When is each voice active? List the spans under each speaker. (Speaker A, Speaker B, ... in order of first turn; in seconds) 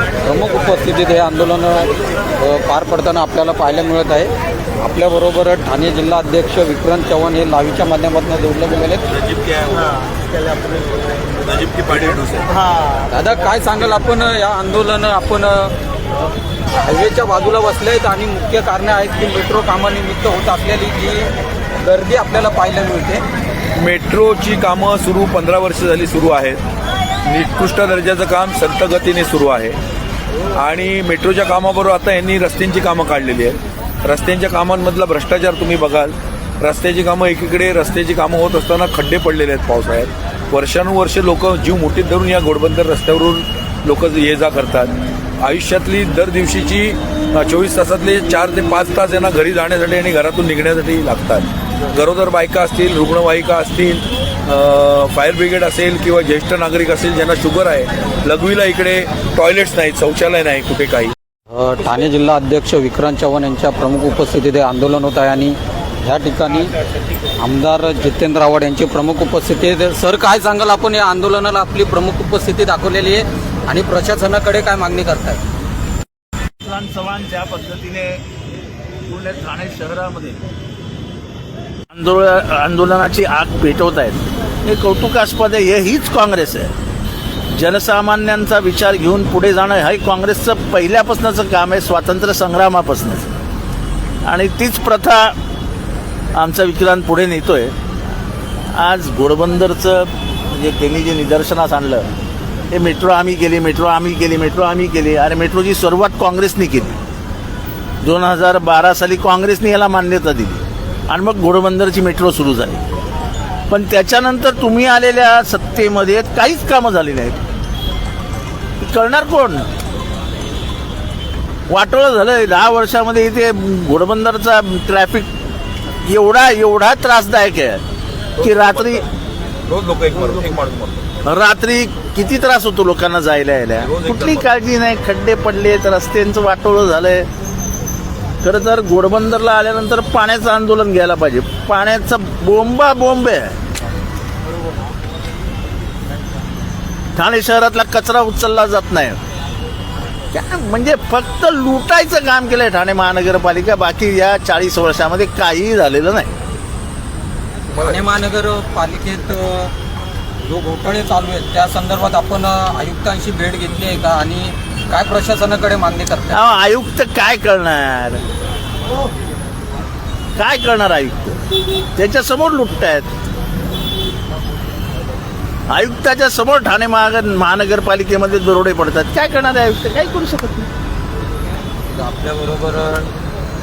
Speaker A: 0.2-9.1, 12.9-15.7, 16.7-23.2, 61.5-66.7, 67.4-75.4, 157.7-159.7, 160.4-166.4, 181.9-183.1
Speaker B: 9.1-10.5, 11.3-12.6, 23.7-26.6, 27.2-29.8, 30.5-61.1, 128.4-129.1, 129.7-131.1, 133.8-134.4
Speaker C: 76.6-78.2, 79.1-80.4, 81.9-86.7, 87.5-93.3, 94.2-95.3, 96.3-97.7, 98.8-102.0, 102.7-107.0, 108.0-112.8, 113.7-117.4, 118.8-119.7, 121.7-125.3, 126.0-127.8, 128.4-129.0, 131.2-137.3, 138.4-143.6, 147.2-149.2, 150.3-156.3, 166.3-168.2, 170.3-171.4, 171.9-173.1, 175.7-180.7